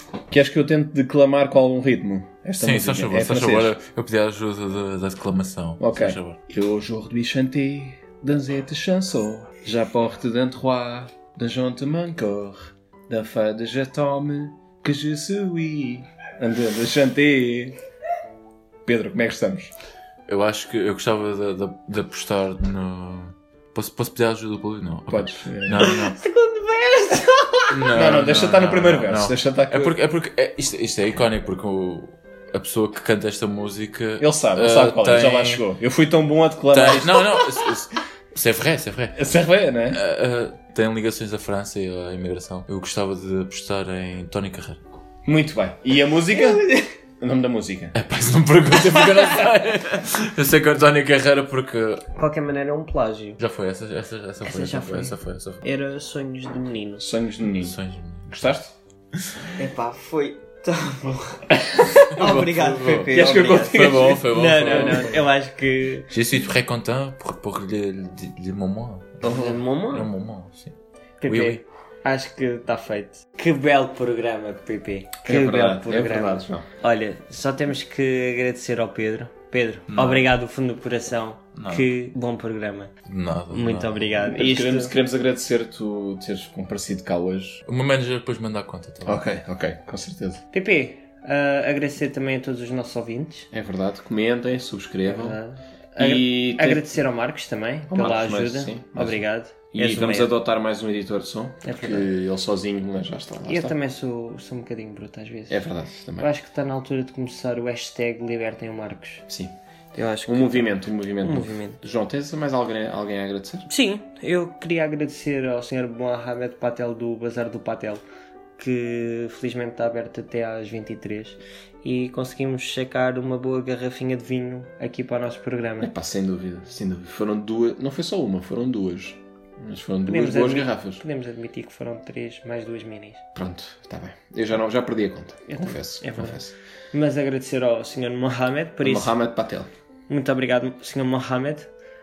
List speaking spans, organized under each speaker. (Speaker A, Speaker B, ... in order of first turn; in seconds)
Speaker A: 0.3-3.7, 5.8-17.8, 18.9-19.7, 25.1-25.9, 27.9-30.0, 34.2-37.4, 39.1-40.0, 45.2-46.7, 47.2-47.9, 57.0-58.7, 63.1-65.1, 75.2-76.6, 84.2-87.6, 89.0-90.4, 93.5-95.4, 96.0-96.9, 97.9-103.8, 105.5-106.3, 109.3-109.5, 110.2-113.7, 125.8-131.0, 133.3-136.5, 138.8-139.7
Speaker B: 2.6-6.4, 20.3-26.2, 27.7-35.6, 36.7-39.2, 39.9-44.8, 47.9-52.0, 53.4-55.6, 57.6-58.3, 62.1-65.2, 66.1-70.7, 71.2-71.6, 79.9-80.2, 81.5-81.8, 83.1-84.0, 87.7-89.2
Speaker C: 25.8-27.9, 46.3-46.9, 52.1-53.4, 54.4-57.1, 59.6-61.5, 62.1-66.1, 69.2-70.1, 71.2-82.9, 83.5-84.9, 90.5-93.5, 95.0-100.3, 101.6-102.1, 103.5-105.6, 106.2-109.2, 109.9-111.8, 113.7-118.0, 118.6-125.9, 130.1-133.2, 135.5-136.4, 136.9-139.1, 140.1-141.7